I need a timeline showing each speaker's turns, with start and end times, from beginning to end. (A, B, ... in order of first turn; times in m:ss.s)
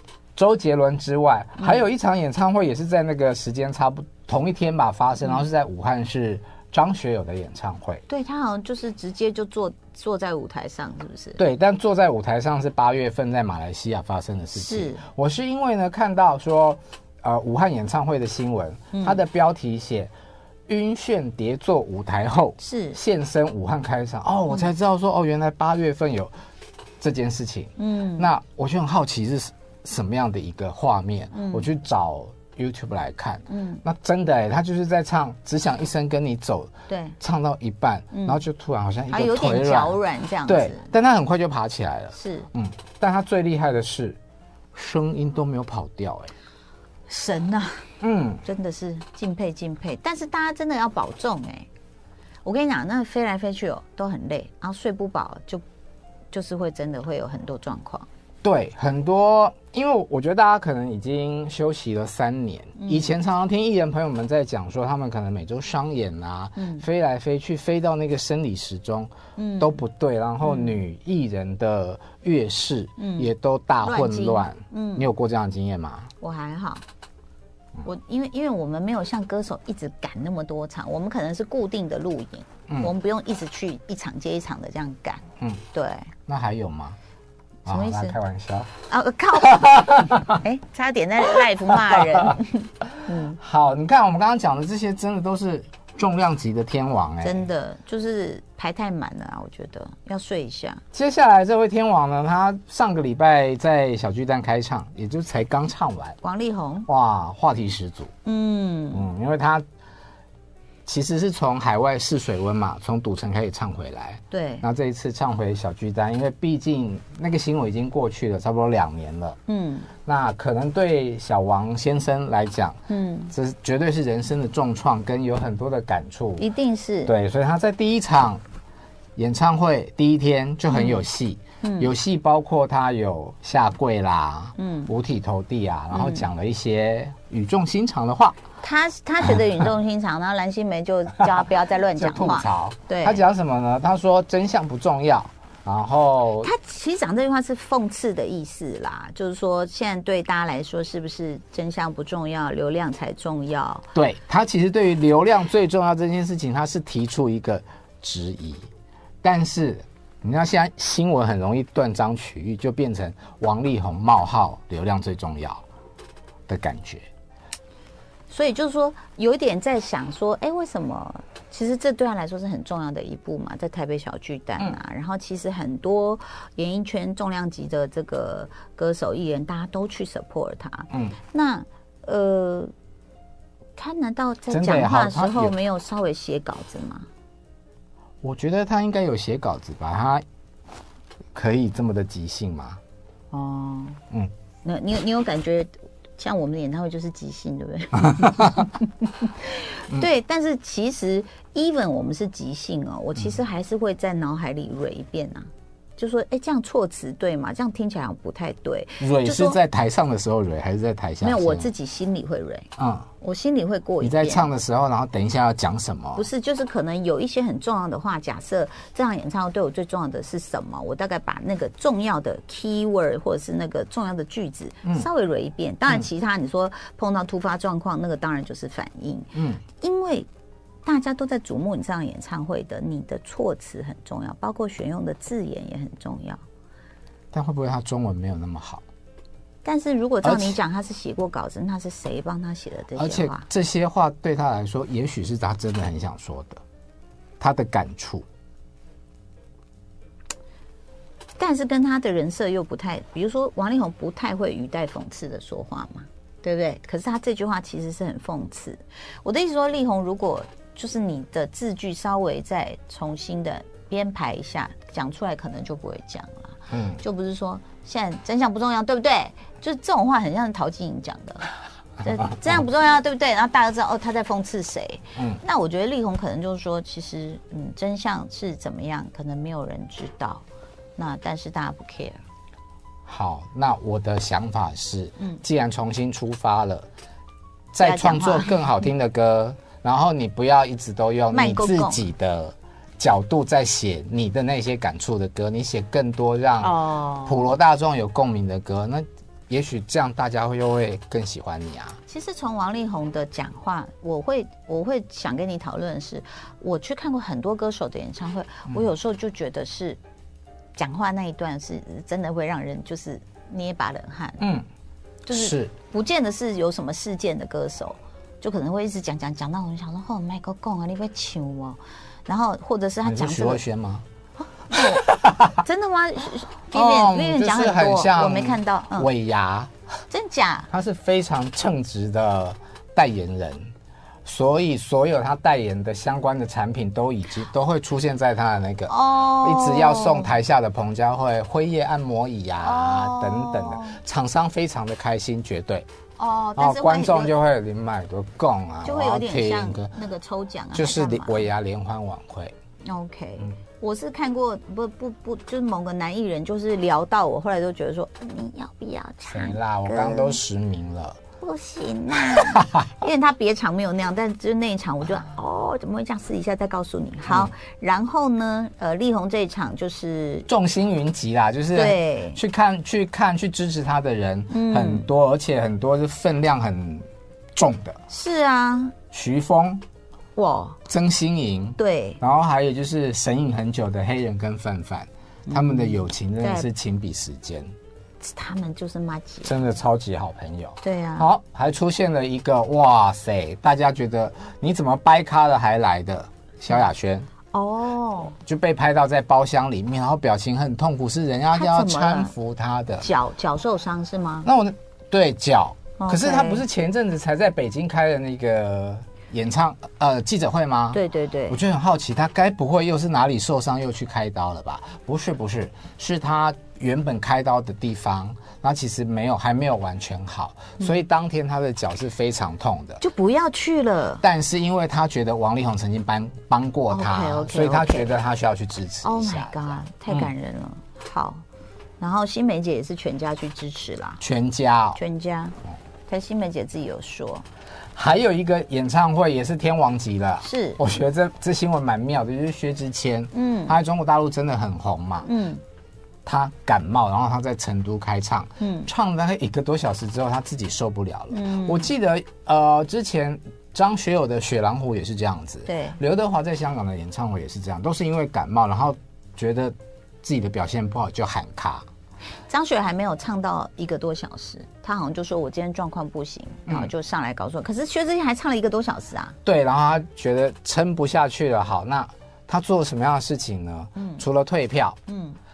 0:00.3-0:08.0 A
0:08.1-0:11.4 B
0:11.4-0:20.1 A
0:14.5-0:15.0 B
0:18.9-0:19.2 B
0:20.7-0:26.3 A
0:22.6-0:23.0 B
0:27.0-0:44.2 A
0:27.8-0:28.3 B
0:31.3-0:31.7 B
0:33.5-0:33.8 B
0:36.9-0:37.1 B
0:38.1-0:38.4 B
0:39.1-0:40.9 B
0:42.1-0:42.5 B
0:44.7-0:46.3 A
0:47.1-0:47.9 B
0:48.0-0:48.4 A
0:48.4-0:51.7 B
0:52.4-0:55.6 B
0:56.3-0:58.1 B
0:58.4-1:16.1 A
1:02.8-1:03.1 B
1:06.6-1:06.8 B
1:09.4-1:09.8 B
1:10.4-1:10.8 B
1:13.0-1:13.3 B
1:13.8-1:15.1 B
1:16.2-1:16.8 B
1:17.8-1:26.1 B
1:26.3-1:27.0 A
1:27.6-1:28.7 A
1:27.6-1:28.2 B
1:28.9-1:33.4 B
1:29.3-1:30.4 A
1:31.7-1:32.4 A
1:33.1-1:37.5 A
1:37.2-1:40.8 B
1:40.9-1:46.2 A
1:46.2-1:46.9 B
1:46.9-1:48.1 A
1:48.2-1:49.1 B
1:48.9-1:49.6 A
1:50.8-1:59.4 A
1:54.3-1:54.6 B
1:59.5-1:59.9 B
2:00.0-2:02.8 A
2:02.9-2:03.3 B
2:03.3-2:06.5 A
2:06.4-2:07.1 B
2:07.0-2:08.4 A
2:09.2-2:18.4 A
2:10.7-2:11.0 B
2:11.6-2:11.9 B
2:14.6-2:14.9 B
2:15.9-2:16.2 B
2:18.6-2:23.2 B
2:21.9-2:26.5 A
2:26.4-2:33.9 B
2:33.9-2:38.7 A
2:39.2-2:45.6 A
2:46.5-2:47.0 A
2:48.3-3:02.7 B
3:03.8-3:07.1 B
3:04.5-3:05.5 A
3:08.2-3:10.2 A
3:11.3-3:12.8 A
3:13.3-3:14.0 B
3:14.6-3:29.6 B
3:18.1-3:18.6 A
3:29.0-3:31.7 A
3:31.2-3:32.7 B
3:32.8-3:33.1 A
3:33.2-3:34.5 B
3:34.0-3:36.3 A
3:36.1-3:50.3 B
3:49.3-3:49.6 A
3:50.8-3:56.4 B
3:57.3-3:58.8 A
3:59.6-4:03.4 B
4:00.2-4:00.6 A
4:03.0-4:06.6 A
4:07.4-4:08.2 A
4:11.4-4:40.4 B
4:26.7-4:27.0 A
4:35.2-4:35.4 A
4:41.0-4:42.2 B
4:43.0-4:46.9 A
4:47.7-5:02.0 A
4:47.8-4:48.6 B
4:51.3-4:52.0 B
4:56.6-4:57.5 B
5:02.1-5:10.0 B
5:10.8-5:14.4 B
5:14.4-5:14.6 A
5:15.2-5:23.6 B
5:15.3-5:15.7 A
5:23.0-5:24.0 A
5:24.6-5:29.1 B
5:24.7-5:25.6 A
5:26.7-5:29.7 A
5:30.1-5:30.7 B
5:30.7-5:33.7 A
5:34.2-5:45.9 A
5:38.9-5:40.3 B
5:42.6-5:44.0 B
5:46.2-5:47.3 B
5:46.6-5:49.9 A
5:48.8-5:51.5 B
5:50.7-5:52.5 A
5:52.8-6:00.4 B
5:59.2-6:01.2 A
6:01.4-6:10.5 B
6:02.3-6:02.8 A
6:07.3-6:07.5 A
6:10.5-6:18.0 A
6:11.7-6:12.4 B
6:14.5-6:15.1 B
6:18.1-6:19.0 B
6:19.1-6:19.8 A
6:20.4-6:20.8 B
6:20.9-6:27.7 A
6:21.8-6:22.2 B
6:25.5-6:26.7 B
6:28.2-6:29.5 B
6:29.4-6:37.3 A
6:30.8-6:31.3 B
6:37.5-6:38.3 B
6:38.4-6:43.1 A
6:41.5-6:42.3 B
6:43.0-6:44.5 B
6:44.4-7:03.0 A
6:46.0-6:46.6 B
6:50.9-6:51.6 B
7:03.0-7:04.2 B
7:04.2-7:10.3 A
7:06.9-7:08.1 B
7:09.0-7:11.4 B
7:12.0-7:14.2 B
7:14.2-7:15.0 A
7:15.0-7:15.6 B
7:16.1-7:17.4 B
7:17.9-7:25.3 A
7:20.4-7:20.8 B
7:23.3-7:23.8 B
7:25.2-7:25.6 B
7:26.2-7:41.8 A
7:28.6-7:28.9 B
7:31.3-7:31.9 B
7:35.6-7:36.0 B
7:42.5-7:49.4 B
7:49.4-7:55.0 A
7:54.0-7:54.2 B
7:55.1-7:55.4 B